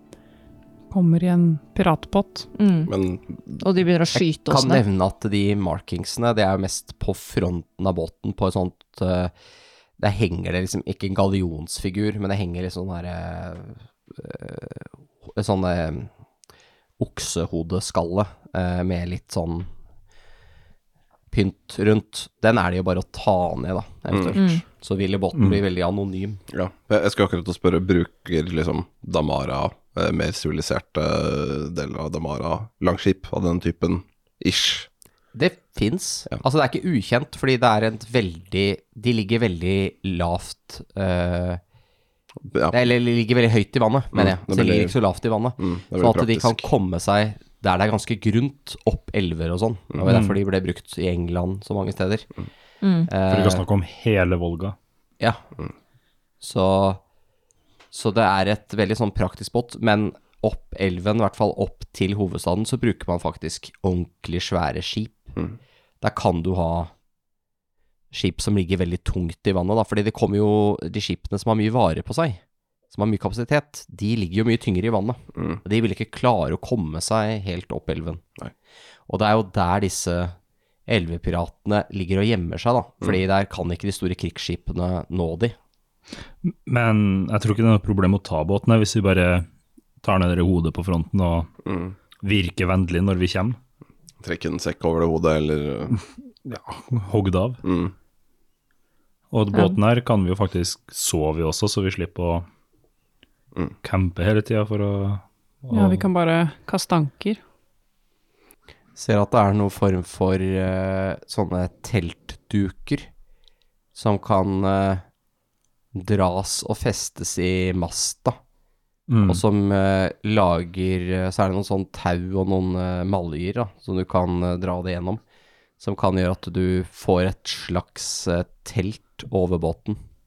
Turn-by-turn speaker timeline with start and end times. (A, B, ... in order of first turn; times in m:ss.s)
0:00.9-0:02.5 A
0:02.6-0:02.9 B
0:02.9-0:03.6 C
0:03.6-0:04.8 B
0:04.1-0:09.3 D
0:10.0-0:16.1 D
0:17.0-0:19.7 D
0:21.3-0:26.4 D
0:24.1-0:24.4 C
0:24.3-0:24.6 B
0:25.4-0:25.6 E
0:26.5-0:34.9 C
0:35.4-0:41.6 D
0:42.5-0:42.8 C
0:42.7-0:52.3 D
0:44.1-0:44.9 C
0:45.6-0:46.7 C
0:50.1-0:50.4 E
0:52.8-0:53.1 B
0:53.1-0:53.6 D
0:53.3-0:54.8 E
0:56.4-0:57.0 D
0:57.9-1:05.4 D
1:06.0-1:06.9 D
1:08.1-1:18.2 D
1:19.1-1:20.4 D
1:20.9-1:25.6 D
1:26.4-1:29.5 E
1:30.0-1:31.5 E
1:31.7-1:32.0 C
1:32.2-1:33.6 E
1:34.2-1:36.0 C
1:36.4-1:37.6 E
1:37.6-1:37.9 C
1:39.3-1:42.5 E
1:43.8-1:46.1 E
1:45.7-1:47.4 A
1:49.0-1:53.1 D
1:54.0-1:55.0 D
1:55.9-1:58.4 D
1:59.1-1:59.4 E
1:59.2-2:05.2 D
2:05.8-2:10.0 D